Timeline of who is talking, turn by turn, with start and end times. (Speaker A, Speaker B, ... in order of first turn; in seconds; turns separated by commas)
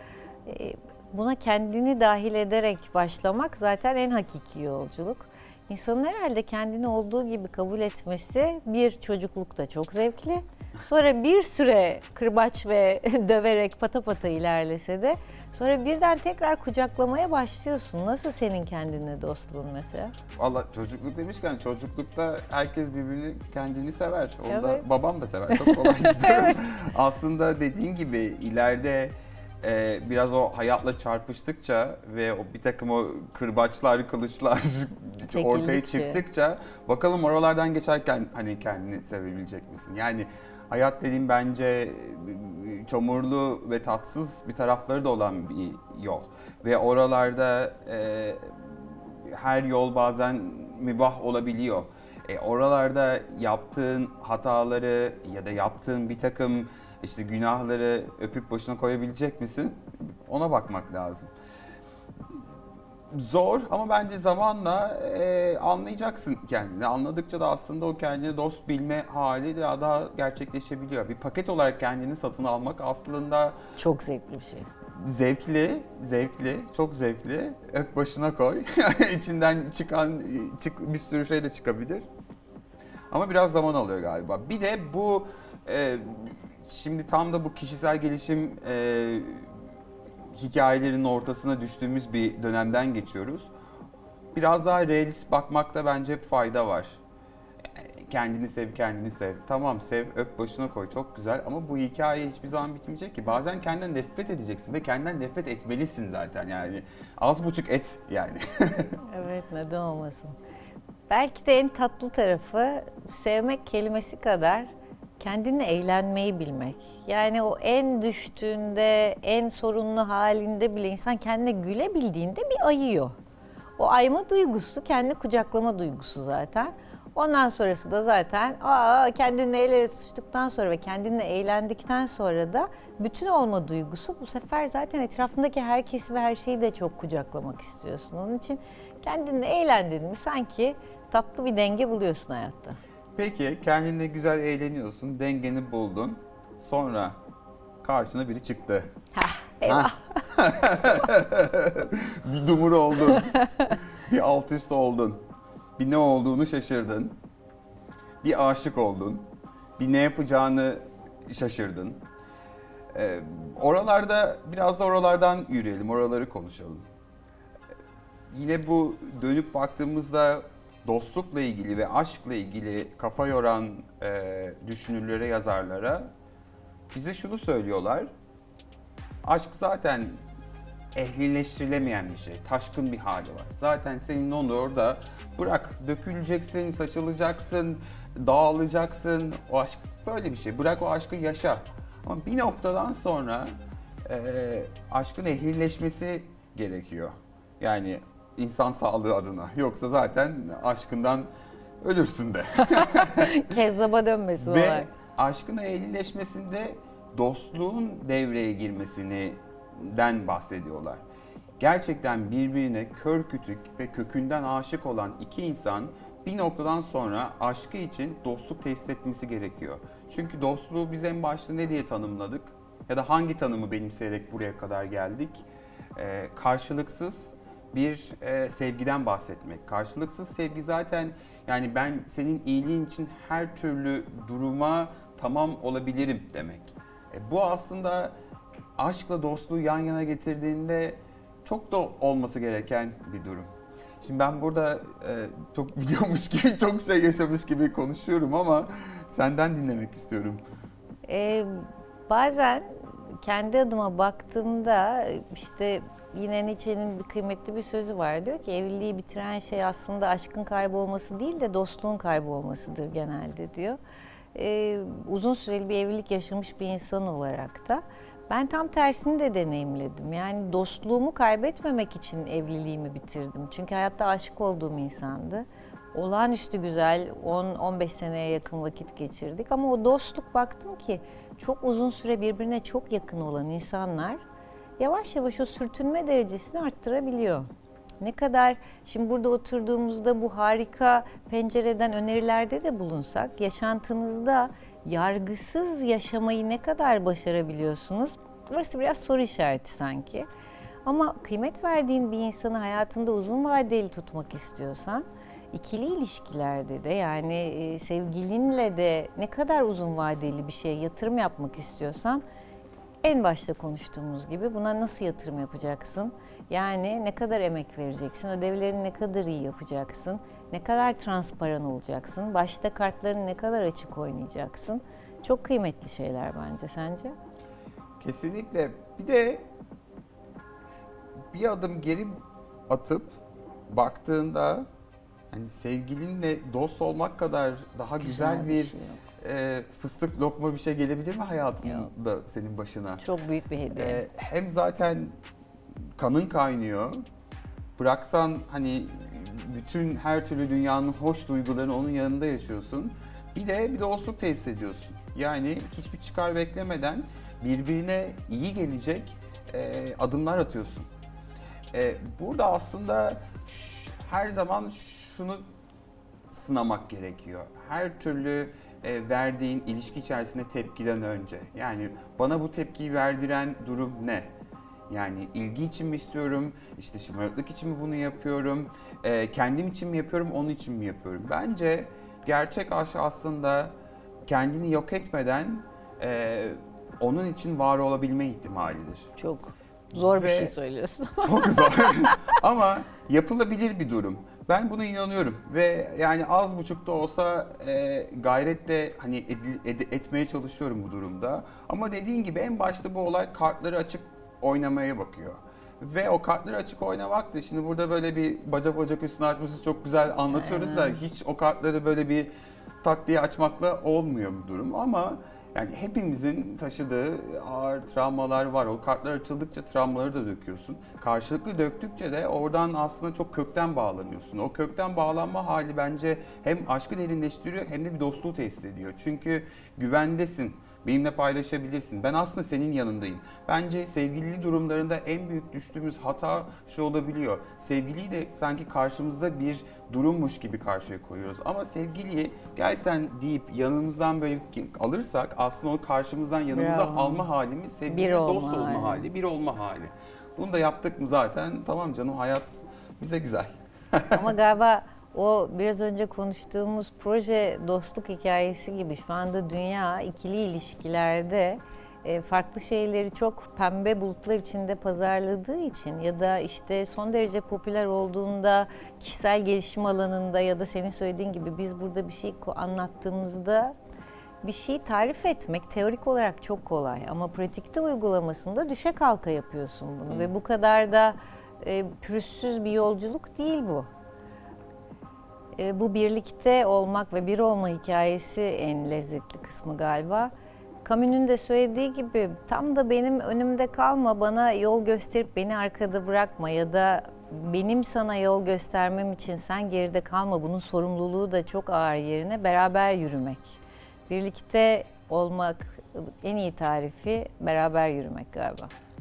Speaker A: 0.5-20.1, Speaker B: 20.4-61.3, Speaker A: 24.5-24.9, Speaker A: 25.5-26.6, Speaker A: 35.3-36.2, Speaker B: 63.1-73.6, Speaker A: 73.8-74.7, Speaker B: 75.0-82.1, Speaker B: 83.1-89.5, Speaker B: 90.3-93.5, Speaker B: 94.3-97.0, Speaker B: 97.7-109.0, Speaker A: 109.0-110.3, Speaker A: 111.1-123.2, Speaker A: 123.8-142.8, Speaker B: 143.2-147.2, Speaker B: 147.8-148.9, Speaker A: 149.2-150.0, Speaker B: 149.7-155.2, Speaker B: 155.8-157.2, Speaker B: 158.2-162.0, Speaker B: 162.9-166.9, Speaker B: 168.3-176.1, Speaker B: 176.9-178.1, Speaker B: 179.2-180.2, Speaker B: 180.9-193.5, Speaker B: 194.1-201.3, Speaker B: 201.8-203.3, Speaker A: 202.8-204.9, Speaker B: 204.4-211.0, Speaker B: 211.6-238.1, Speaker B: 238.8-243.5, Speaker B: 244.0-250.4, Speaker A: 251.1-263.8, Speaker A: 264.3-284.2, Speaker A: 284.8-287.5, Speaker A: 288.0-300.3, Speaker A: 300.9-312.2, Speaker A: 313.0-327.2, Speaker B: 328.0-329.4, Speaker B: 331.3-334.7, Speaker B: 335.3-343.0, Speaker A: 338.0-339.0, Speaker A: 341.6-341.9, Speaker A: 343.0-344.0, Speaker B: 343.7-345.1, Speaker B: 346.0-347.0, Speaker B: 347.8-360.9, Speaker B: 361.7-365.4, Speaker B: 366.3-374.3, Speaker B: 374.9-383.7, Speaker B: 384.3-389.1, Speaker A: 389.2-392.3, Speaker B: 389.9-390.5, Speaker B: 391.2-412.3, Speaker A: 410.3-411.0, Speaker B: 412.8-454.2, Speaker A: 446.5-447.3, Speaker A: 447.9-449.1, Speaker A: 454.1-473.7, Speaker A: 474.4-483.9, Speaker A: 485.6-490.3, Speaker A: 490.8-508.7